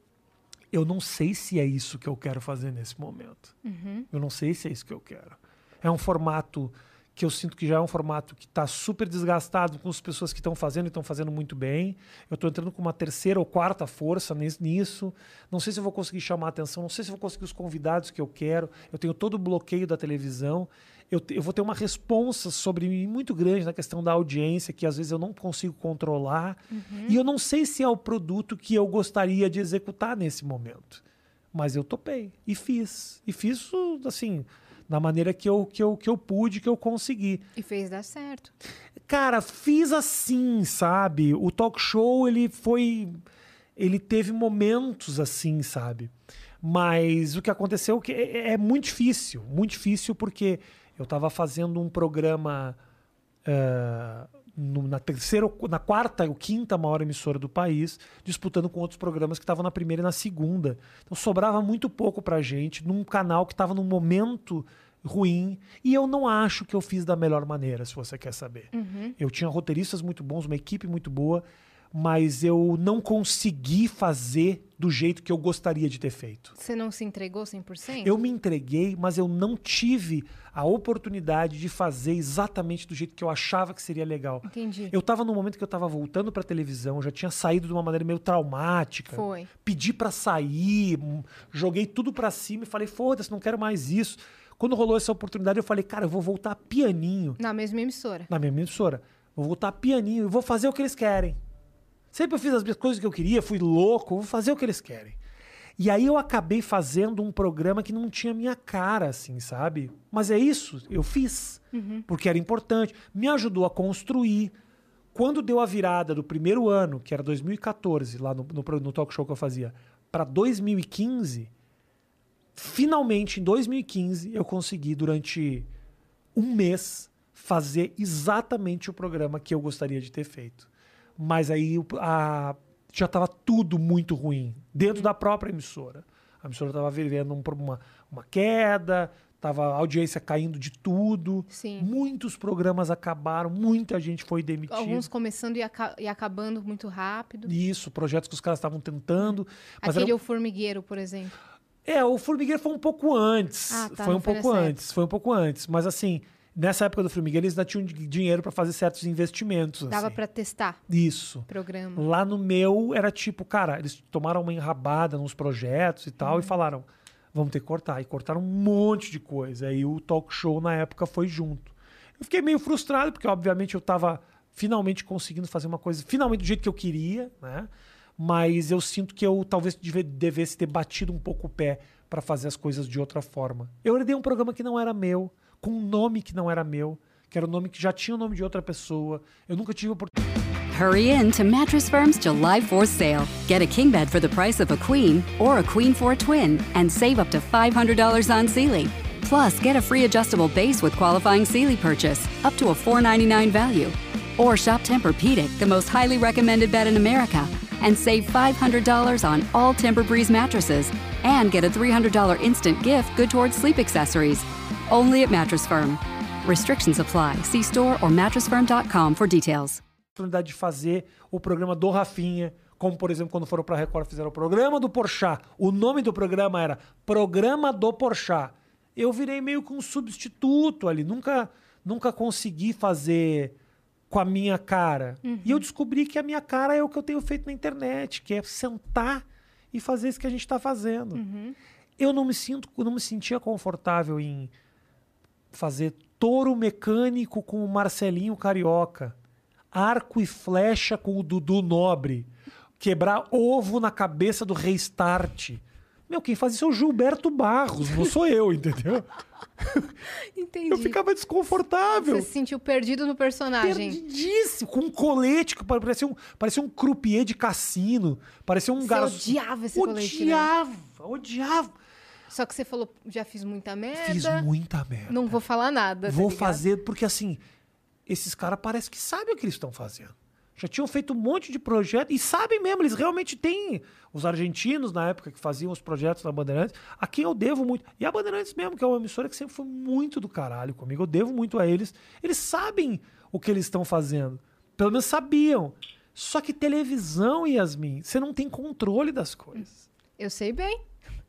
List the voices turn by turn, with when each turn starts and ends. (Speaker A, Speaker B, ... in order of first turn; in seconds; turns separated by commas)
Speaker A: 0.7-3.5, Speaker B: 3.6-4.1, Speaker A: 4.1-37.5, Speaker B: 26.7-27.2, Speaker B: 37.6-38.5, Speaker A: 39.1-43.2, Speaker A: 43.8-52.8, Speaker A: 53.5-76.5, Speaker B: 68.7-69.2, Speaker B: 76.6-78.1, Speaker A: 78.0-97.4, Speaker B: 84.5-85.0, Speaker B: 89.1-89.5, Speaker B: 97.4-98.3, Speaker A: 98.3-101.4, Speaker A: 102.1-105.2, Speaker A: 105.8-114.5, Speaker B: 111.7-112.1, Speaker A: 115.1-121.5, Speaker A: 122.5-125.7, Speaker A: 126.3-145.1, Speaker B: 141.5-141.9, Speaker B: 144.7-147.5, Speaker A: 147.5-150.2, Speaker B: 149.2-151.4, Speaker A: 151.8-160.2, Speaker B: 153.7-154.8, Speaker B: 159.9-160.8, Speaker A: 160.9-190.1, Speaker B: 161.5-162.1, Speaker B: 166.2-166.6, Speaker C: 190.7-219.8, Speaker A: 220.2-233.6, Speaker A: 234.1-241.2, Speaker B: 235.2-235.7, Speaker B: 241.1-241.6, Speaker A: 242.0-244.5, Speaker A: 245.5-249.2, Speaker A: 249.7-259.1, Speaker B: 260.1-261.0, Speaker A: 260.7-262.3, Speaker B: 261.9-264.0, Speaker A: 263.6-271.8, Speaker B: 268.8-270.5, Speaker B: 272.3-274.5, Speaker A: 274.0-275.4, Speaker B: 275.1-276.6, Speaker A: 276.1-277.4, Speaker A: 278.1-299.9, Speaker B: 300.2-300.8